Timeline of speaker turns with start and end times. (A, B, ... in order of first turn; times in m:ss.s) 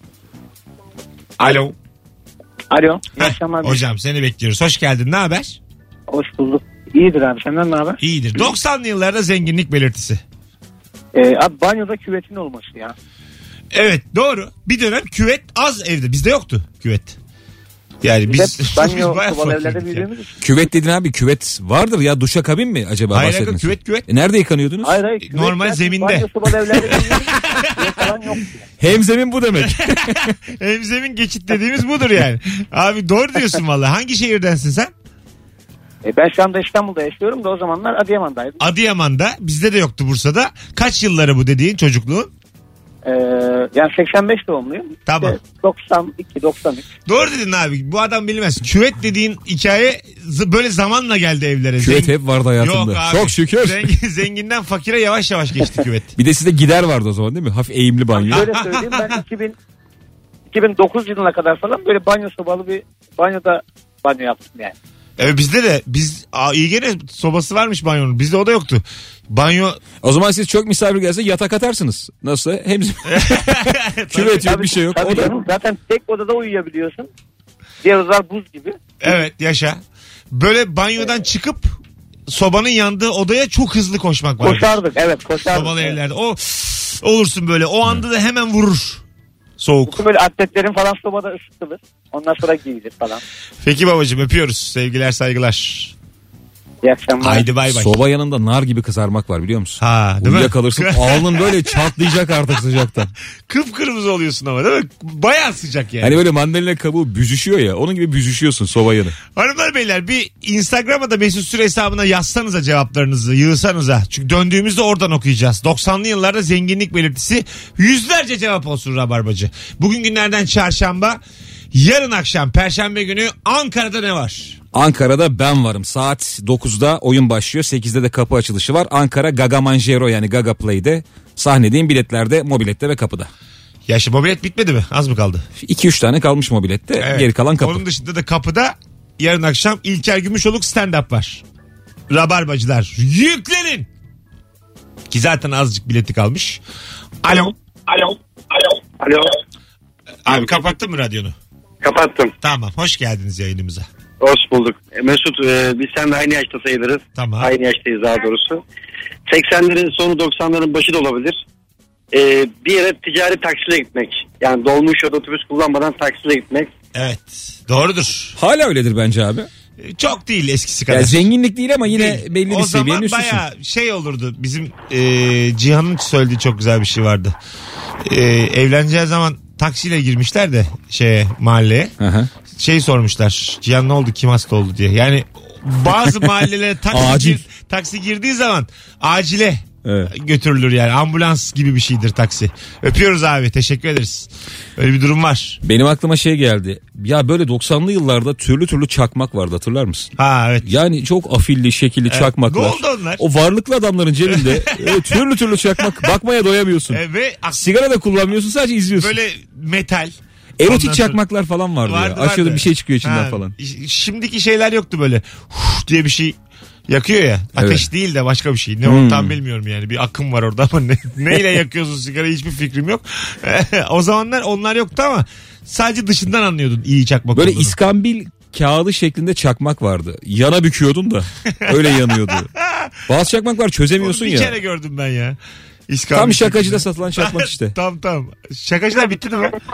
0:01.4-0:01.7 A
0:02.7-0:03.8 B
0:03.2-0:05.6 A
0:06.1-0:08.0 B
0:08.0-0:10.2 A
0:11.1-0:12.9 B
0:13.7-0:17.2 A
0:18.0-0:20.0 A
0:18.3-0:20.3 B
0:20.4-0:25.0 C
0:23.1-0:24.1 A
0:24.8-0:28.6 B
0:25.2-0:27.6 A
0:28.8-0:30.3 C
0:29.7-0:34.9 A
0:36.0-0:38.6 B
0:38.6-0:42.3 A
0:43.0-0:46.8 B
0:45.1-0:45.4 A
0:47.1-0:56.1 A
0:51.8-0:53.9 C
0:56.2-0:58.5 C
0:58.2-0:59.5 B
0:58.3-0:59.2 A
1:00.5-1:04.7 B
1:05.2-1:09.8 A
1:10.0-1:15.4 C
1:13.1-1:14.4 A
1:14.4-1:17.1 B
1:17.8-1:18.8 B
1:19.0-1:24.8 A
1:24.4-1:26.0 B
1:25.5-1:29.0 A
1:29.6-1:30.0 A
1:29.8-1:33.2 B
1:33.6-1:35.9 A
1:36.8-1:37.4 B
1:37.2-1:38.0 A
1:37.7-1:43.1 C
1:39.8-1:41.9 A
1:43.5-1:46.2 A
1:46.0-1:49.2 C
1:49.3-2:01.2 A
2:01.7-2:04.6 A
2:04.7-2:13.3 C
2:13.9-2:15.4 A
2:15.6-2:17.8 C
2:17.0-2:21.4 A
2:22.1-2:23.9 A
2:25.1-2:26.6 A
2:27.2-2:27.6 A
2:29.0-2:29.3 D
2:30.2-2:31.3 A
2:31.8-2:32.3 D
2:32.4-2:33.8 A
2:34.2-2:38.6 D
2:37.1-2:37.5 A
2:39.3-2:41.4 D
2:42.1-2:46.7 D
2:46.9-2:48.4 A
2:48.4-2:49.5 C
2:49.8-2:51.2 A
2:50.9-2:53.4 C
2:51.9-2:57.4 A
2:58.0-3:01.9 A
3:02.0-3:02.3 C
3:02.5-3:15.6 A
3:06.9-3:07.4 C
3:09.8-3:10.1 C
3:15.6-3:20.1 C
3:20.2-3:20.7 A
3:20.6-3:27.0 C
3:22.1-3:23.2 A
3:24.3-3:25.2 A
3:26.9-3:27.7 A
3:27.6-3:29.1 C
3:29.0-3:31.2 A
3:30.6-3:33.5 C
3:31.8-3:36.4 A
3:36.9-3:47.8 A
3:37.6-3:37.9 C
3:38.8-3:39.4 C
3:47.3-3:52.5 C
3:52.6-3:52.9 A
3:53.1-3:54.5 C
3:54.0-3:55.4 A
3:55.9-3:59.6 A
3:56.1-3:57.7 C